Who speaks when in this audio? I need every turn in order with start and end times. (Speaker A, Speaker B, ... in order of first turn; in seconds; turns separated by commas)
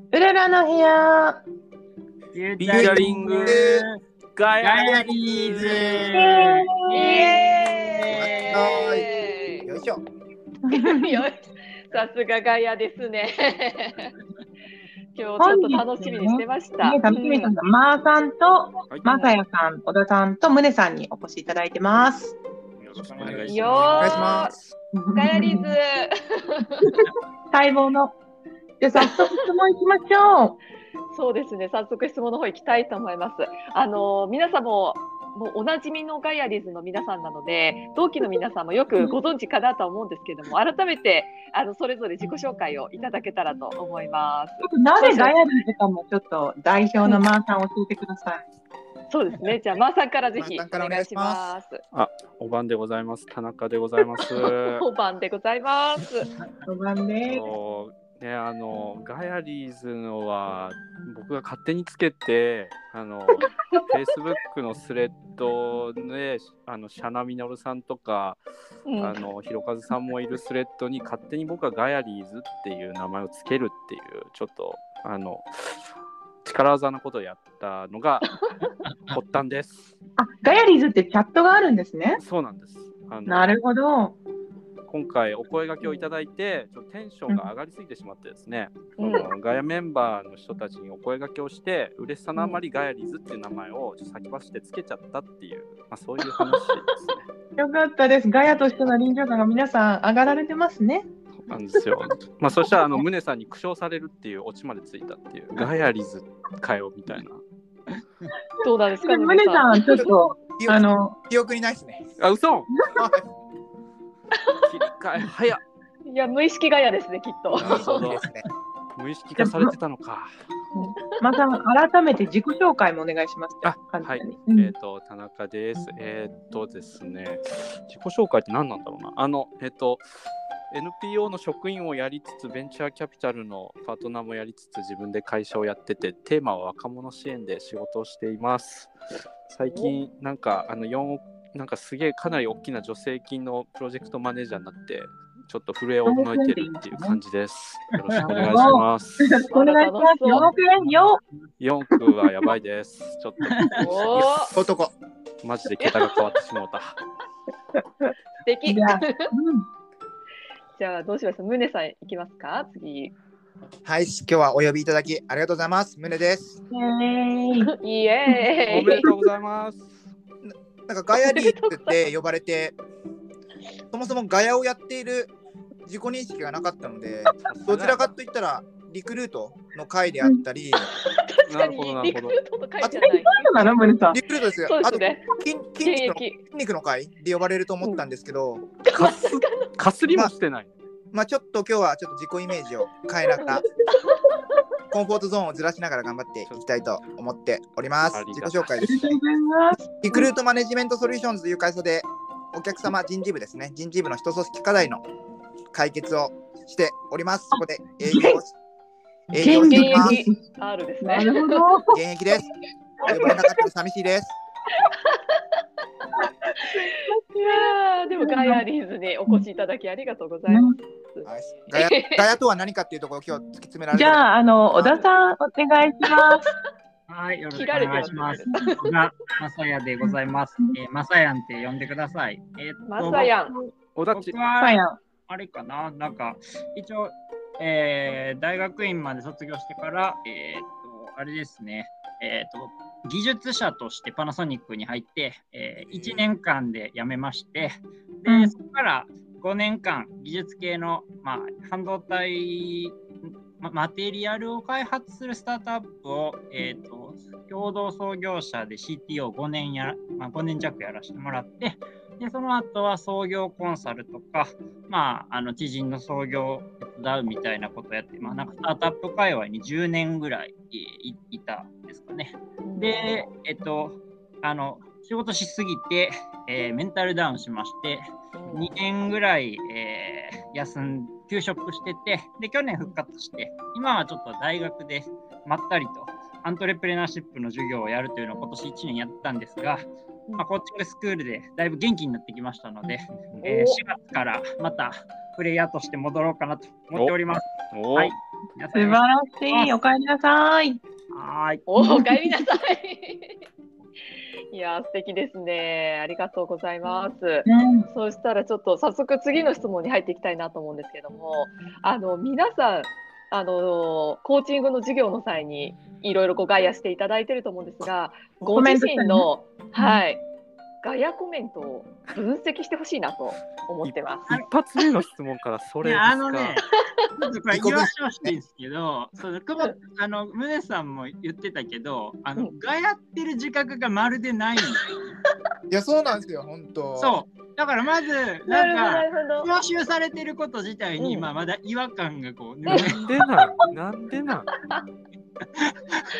Speaker A: 0.1-1.4, Speaker B: 2.3-4.0, Speaker C: 2.6-3.6, Speaker D: 2.7-3.8, Speaker C: 4.3-6.2, Speaker B: 4.6-8.6, Speaker D: 5.6-6.1, Speaker A: 6.1-7.3, Speaker E: 6.9-9.7, Speaker D: 8.1-9.1, Speaker D: 9.6-10.0, Speaker A: 10.7-11.2, Speaker E: 10.7-14.1, Speaker E: 15.1-17.5, Speaker A: 15.4-22.4, Speaker E: 19.1-19.4, Speaker C: 22.8-24.7, Speaker B: 22.9-24.1, Speaker E: 23.5-24.5, Speaker D: 23.9-24.5, Speaker A: 24.9-25.7, Speaker E: 25.1-27.0, Speaker A: 27.5-28.1, Speaker A: 28.8-30.6, Speaker E: 31.1-45.4, Speaker A: 44.6-48.4, Speaker E: 49.1-51.8, Speaker D: 50.4-51.5, Speaker C: 51.9-54.8, Speaker E: 54.2-56.3, Speaker A: 56.6-57.5, Speaker C: 57.2-68.4, Speaker E: 68.9-69.2, Speaker C: 69.0-75.8, Speaker C: 76.4-78.3, Speaker E: 78.2-78.7, Speaker B: 78.9-79.2, Speaker C: 79.1-79.9, Speaker A: 80.2-82.2, Speaker C: 82.2-83.5, Speaker A: 83.2-84.2, Speaker C: 84.9-97.2, Speaker E: 89.0-89.3, Speaker A: 97.6-101.0, Speaker C: 101.4-107.4, Speaker E: 108.6-110.2, Speaker A: 109.0-111.2, Speaker D: 110.5-112.0, Speaker C: 112.2-112.7, Speaker D: 112.9-113.2, Speaker C: 114.7-115.6, Speaker E: 116.0-118.1, Speaker C: 117.5-118.3, Speaker D: 117.6-118.4, Speaker C: 119.0-120.3, Speaker A: 119.3-119.8, Speaker A: 120.7-124.7, Speaker E: 120.7-121.2, Speaker C: 123.6-130.0, Speaker C: 130.7-138.9, Speaker C: 139.5-149.2, Speaker E: 139.6-139.9, Speaker A: 146.1-147.2, Speaker A: 148.1-151.2, Speaker E: 149.5-150.5, Speaker B: 150.8-151.0, Speaker C: 151.6-154.4, Speaker E: 153.8-154.5, Speaker D: 154.2-154.9, Speaker C: 155.4-157.0, Speaker E: 155.8-156.1, Speaker E: 158.4-159.3, Speaker A: 158.7-159.7, Speaker E: 160.8-163.1, Speaker D: 163.8-166.6, Speaker A: 166.7-167.7, Speaker E: 167.6-169.1, Speaker A: 168.3-169.2, Speaker C: 168.7-170.1, Speaker D: 170.4-172.8, Speaker E: 171.1-171.9, Speaker D: 173.9-175.3, Speaker D: 175.8-180.9, Speaker C: 177.4-178.1, Speaker E: 180.8-183.8, Speaker C: 181.5-182.4, Speaker A: 183.0-184.2, Speaker D: 184.1-188.7, Speaker E: 184.6-185.2, Speaker E: 185.8-186.4, Speaker E: 188.8-189.7, Speaker C: 188.9-190.7, Speaker D: 191.1-193.7, Speaker E: 193.4-194.4, Speaker D: 194.9-199.0, Speaker C: 196.5-196.8, Speaker C: 198.1-199.2, Speaker A: 198.8-200.3, Speaker D: 199.8-205.0, Speaker D: 205.7-208.5, Speaker A: 207.5-208.4, Speaker D: 209.3-210.2, Speaker A: 209.4-210.4, Speaker E: 209.4-211.6, Speaker A: 211.0-212.0, Speaker D: 211.9-212.5, Speaker A: 213.0-213.5, Speaker D: 213.1-214.3, Speaker E: 213.1-213.4, Speaker E: 214.8-215.4, Speaker A: 216.2-218.6, Speaker E: 217.5-222.2, Speaker A: 220.5-220.7, Speaker D: 221.2-225.0, Speaker A: 223.9-226.4, Speaker B: 227.1-289.9, Speaker E: 227.5-228.8, Speaker A: 230.0-230.7, Speaker E: 232.8-233.6, Speaker C: 233.9-234.4, Speaker A: 234.6-235.0, Speaker D: 245.8-246.3, Speaker A: 248.2-248.5, Speaker E: 268.2-268.6, Speaker E: 272.6-273.2, Speaker E: 278.3-278.7, Speaker B: 290.4-299.8, Speaker E: 293.4-293.8, Speaker C: 297.7-298.1, Speaker A: 298.7-300.8, Speaker B: 301.1-301.6, Speaker E: 301.7-303.4, Speaker A: 301.8-302.4, Speaker E: 304.5-320.2, Speaker A: 307.4-307.9, Speaker A: 318.4-320.0, Speaker E: 320.8-324.3, Speaker C: 323.8-326.6, Speaker B: 325.8-326.6, Speaker B: 327.1-335.1, Speaker D: 327.5-328.3, Speaker D: 335.7-337.2, Speaker B: 336.9-343.0, Speaker E: 338.5-339.5, Speaker E: 341.0-341.3, Speaker C: 342.6-344.5, Speaker E: 342.7-342.9, Speaker B: 345.5-346.0